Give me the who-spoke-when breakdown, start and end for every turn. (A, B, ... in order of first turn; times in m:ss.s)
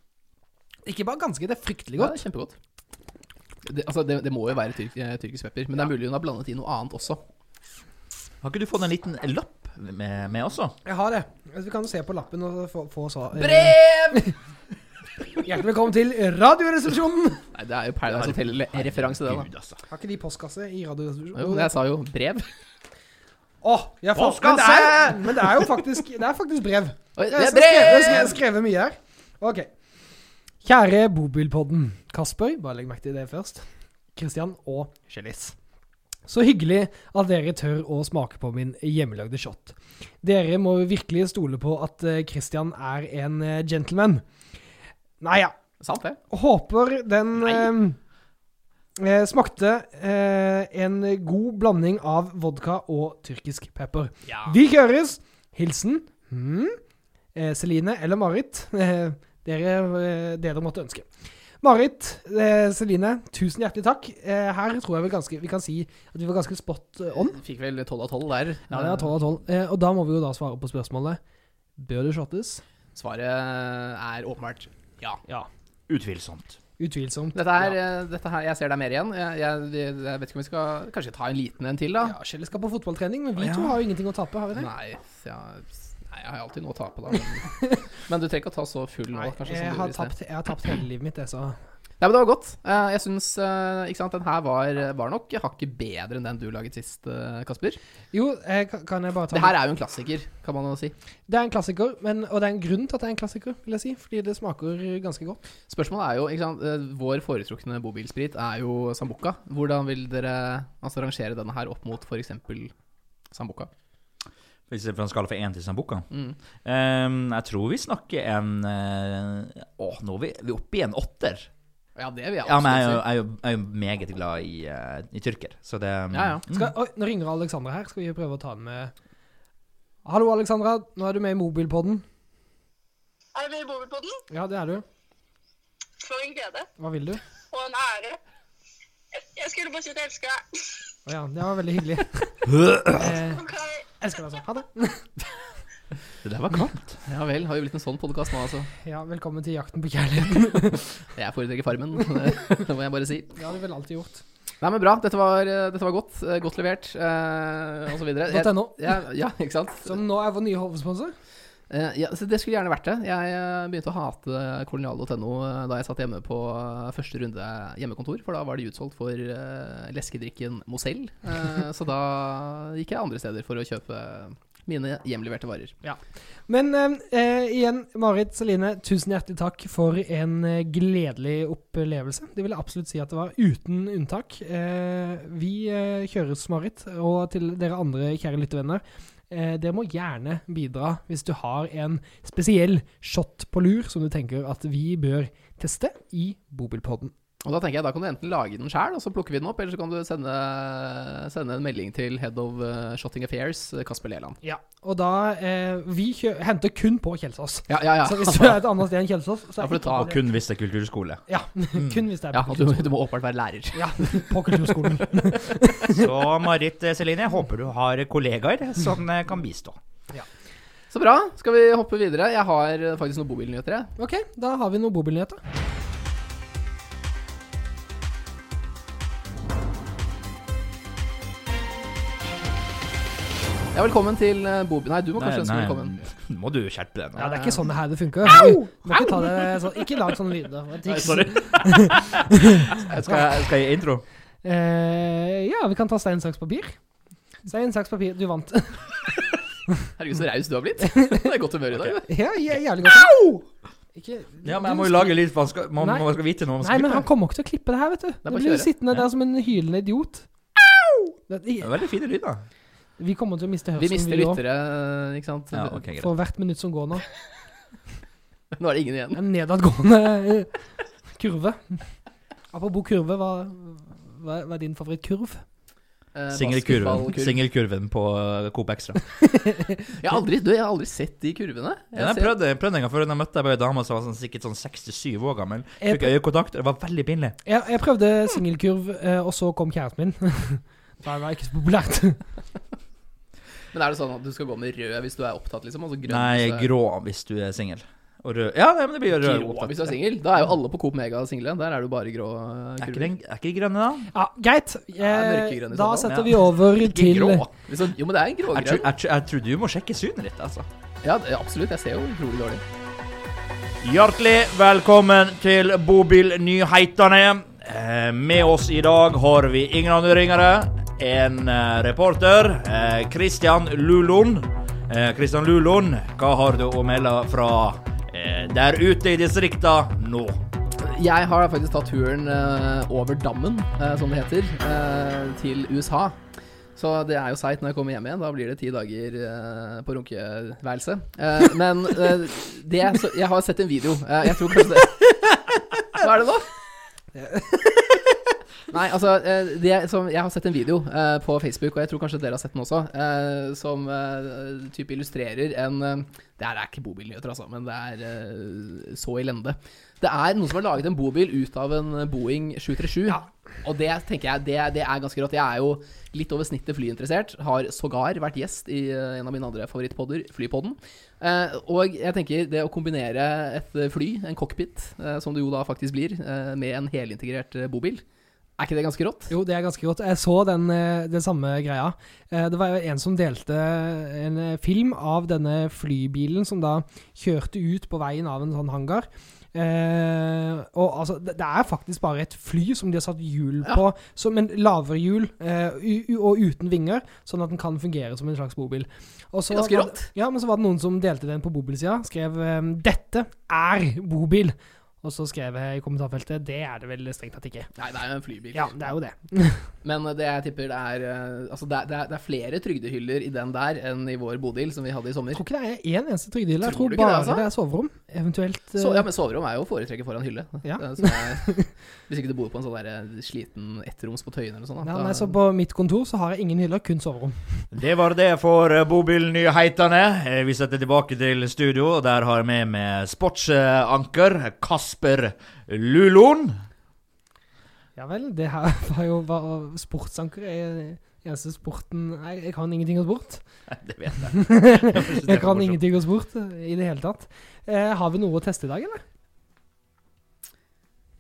0:00.8-0:02.2 A
0:02.0-0:02.5 B
0:03.6-0:07.2 B
0:08.4-0:10.7 C
0:10.8-0:14.3 A
0:13.4-0:14.3 B
0:15.4-0:17.4 A
0:17.5-0:19.5 B
0:18.1-0:19.8 C
0:19.9-0:21.7 A
0:21.4-0:22.4 B
0:23.6-0:29.7 A
0:24.1-0:25.5 C
0:27.2-0:28.4 B
0:30.6-0:33.6 A
0:34.2-0:35.6 A
0:36.3-0:44.2 A
0:45.2-0:45.6 A
0:45.8-0:46.2 B
0:46.3-0:48.0 A
0:47.4-0:47.7 B
0:49.0-0:56.8 A
0:54.3-0:54.5 B
0:57.3-1:01.0 A
1:01.6-1:07.4 A
1:07.3-1:09.1 B
1:08.7-1:11.2 A
1:11.8-1:12.6 A
1:12.9-1:15.2 B
1:15.9-1:16.6 C
1:16.8-1:17.7 A
1:17.3-1:22.1 B
1:22.0-1:24.7 A
1:23.4-1:23.8 C
1:24.6-1:30.1 B
1:29.2-1:31.6 A
1:32.0-1:37.8 B
1:38.1-1:39.6 A
1:39.3-1:40.9 B
1:41.3-1:45.4 A
1:45.7-1:52.7 B
1:53.3-1:53.7 B
1:54.7-1:56.0 C
1:56.1-1:56.4 B
1:56.6-2:01.5 C
2:02.0-2:03.0 B
2:02.4-2:06.7 C
2:06.1-2:06.4 B
2:06.5-2:08.9 A
2:10.0-2:12.0 A
2:13.4-2:14.2 D
2:14.3-2:14.8 A
2:16.0-2:16.7 D
2:16.8-2:17.2 A
2:17.5-2:18.2 D
2:19.1-2:20.9 D
2:21.0-2:23.4 A
2:22.5-2:23.0 C
2:23.2-2:23.8 D
2:24.0-2:25.1 A
2:26.2-2:27.0 C
2:27.1-2:28.7 B
2:28.8-2:31.0 A
2:31.2-2:33.3 B
2:33.4-2:34.2 A
2:34.6-2:40.0 B
2:38.3-2:39.0 A
2:39.8-2:41.1 A
2:41.7-2:55.7 B
2:55.8-3:17.1 A
3:17.4-3:24.4 B
3:24.4-3:30.2 A
3:27.7-3:28.6 B
3:29.6-3:30.1 B
3:30.0-3:31.2 C
3:31.3-3:32.9 A
3:32.3-3:34.9 B
3:33.7-3:36.1 A
3:35.8-3:39.8 C
3:40.9-3:43.9 B
3:44.0-3:45.4 A
3:53.7-3:55.9 B
3:55.2-3:57.6 C
3:57.2-4:02.7 A
3:58.2-3:59.8 C
4:00.8-4:04.0 C
4:02.8-4:03.4 B
4:04.4-4:06.8 A
4:07.4-4:08.9 A
4:10.0-4:12.1 B
4:10.9-4:11.2 A
4:12.1-4:15.2 A
4:14.4-4:17.0 C
4:15.8-4:16.0 A
4:16.6-4:20.3 A
4:18.2-4:18.7 B
4:21.3-4:21.7 A
4:21.6-4:22.4 C
4:23.0-4:24.4 A
4:23.8-4:25.8 B
4:25.5-4:26.1 C
4:26.0-4:27.0 A
4:28.5-4:29.2 B
4:29.1-4:30.5 A
4:31.1-4:31.8 A
4:32.5-4:35.4 A
4:36.1-4:37.4 B
4:36.3-4:39.0 C
4:39.2-4:39.9 A
4:40.0-4:42.3 B
4:42.0-4:47.4 C
4:45.8-4:46.1 A
4:47.4-4:52.2 A
4:53.7-4:56.7 B
4:56.1-5:00.0 C
4:59.1-5:03.1 B
5:02.8-5:04.1 C
5:04.1-5:07.5 A
5:05.0-5:06.2 B
5:06.0-5:07.5 C
5:07.7-5:08.8 B
5:08.5-5:10.7 C
5:11.0-5:12.6 B
5:13.8-5:30.4 C
5:30.8-5:36.2 B
5:36.8-5:45.4 B
5:45.9-5:46.5 B
5:47.1-5:48.0 A
5:48.7-6:18.0 B
6:18.6-6:19.3 B
6:19.3-6:47.7 A
6:39.5-6:40.1 B
6:47.8-6:48.8 B
6:48.5-6:49.7 A
6:49.8-6:55.4 B
6:55.3-6:59.0 A
6:56.6-6:57.5 B
6:58.8-7:05.3 B
7:00.6-7:01.7 A
7:04.8-7:07.6 A
7:07.7-7:16.6 C
7:18.0-7:23.4 A
7:23.7-7:25.8 C
7:24.2-7:29.0 A